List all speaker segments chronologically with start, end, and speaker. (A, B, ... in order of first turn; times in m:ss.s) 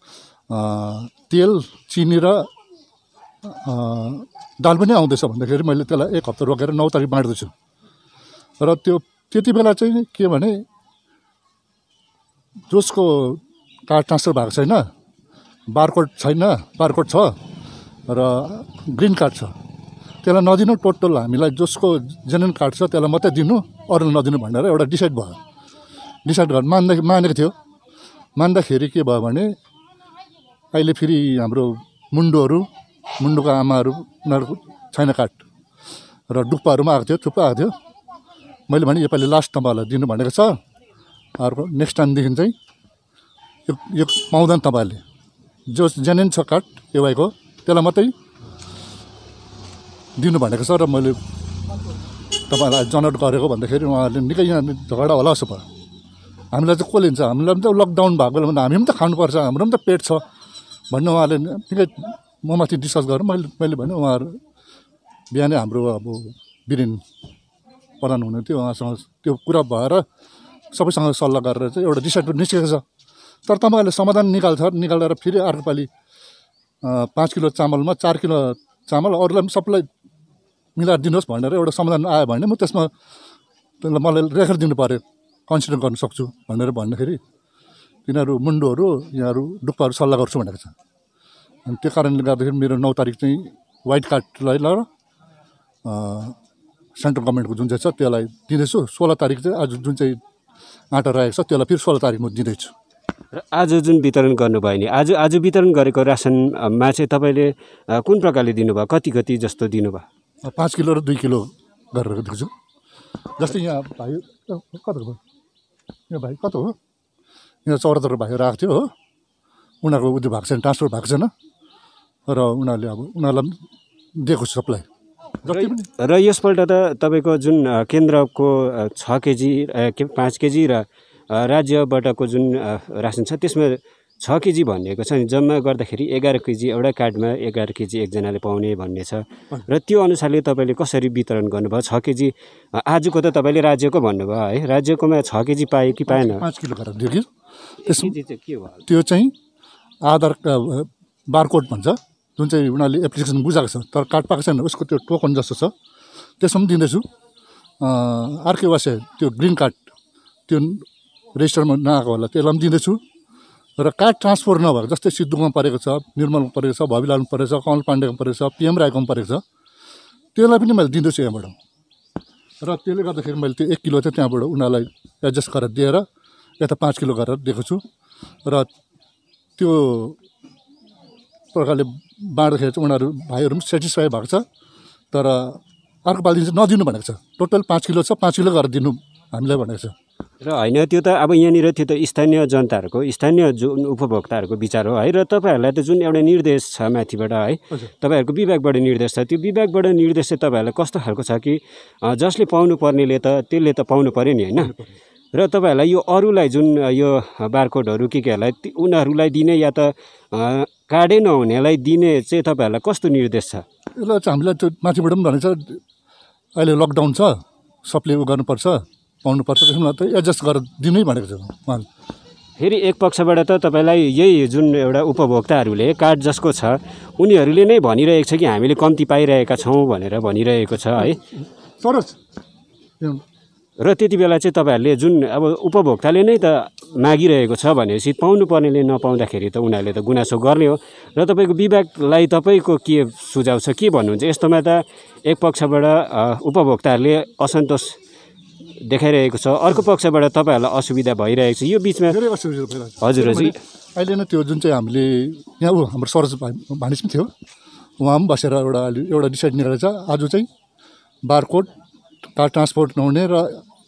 0:00.5-0:02.5 A
0:03.4-0:07.5 A
0:08.6-0:10.6 A
0:12.7-0:14.8 A
0:15.7-0:17.4 A
0:18.1-0:19.5 A
0:20.2-0:25.4 A
0:26.3-0:27.6 A
0:28.4-0:29.5 A
0:30.7-0:32.7 A
0:33.2-0:35.4 A
0:36.3-0:37.7 A
0:38.7-0:40.5 A
0:41.4-0:42.6 A
0:43.7-0:45.0 A
0:45.7-0:48.1 A
0:50.2-0:51.2 A
0:52.5-0:55.6 A
0:56.5-1:00.2 A
1:00.9-1:04.4 A
1:05.3-1:07.0 A
1:08.0-1:10.0 A
1:10.7-1:12.8 A
1:13.5-1:15.9 A
1:16.8-1:19.9 A
1:20.8-1:22.9 A
1:23.8-1:27.2 A
1:28.1-1:30.8 A
1:31.6-1:34.8 A
1:35.8-1:36.4 A
1:37.0-1:40.2 A
1:40.9-1:42.7 A
1:43.3-1:50.0 B
1:50.4-1:52.5 A
1:53.4-1:55.2 A
1:56.1-1:56.8 A
1:57.6-1:58.9 A
1:59.8-2:01.3 A
2:02.3-2:03.6 A
2:04.2-2:04.9 A
2:05.4-2:05.9 A
2:05.5-2:26.4 B
2:26.1-2:27.3 A
2:27.8-2:28.8 B
2:27.8-2:28.2 A
2:28.8-2:29.3 A
2:30.0-2:35.7 A
2:36.4-2:37.0 A
2:37.8-2:39.9 A
2:40.5-2:43.0 A
2:43.8-2:49.4 A
2:50.4-2:51.6 A
2:52.6-2:56.0 A
2:56.6-2:57.8 A
2:59.6-3:00.2 A
3:01.5-3:04.4 A
3:05.1-3:10.0 A
3:10.4-3:24.7 B
3:24.6-3:24.9 A
3:25.3-3:33.6 B
3:34.0-3:35.8 A
3:36.6-3:41.9 A
3:42.6-3:51.2 B
3:51.8-3:52.2 A
3:53.8-4:07.9 B
4:08.9-4:12.2 B
4:12.1-4:17.3 A
4:13.0-4:13.6 B
4:18.0-4:20.5 A
4:21.2-4:21.7 A
4:22.3-4:23.6 A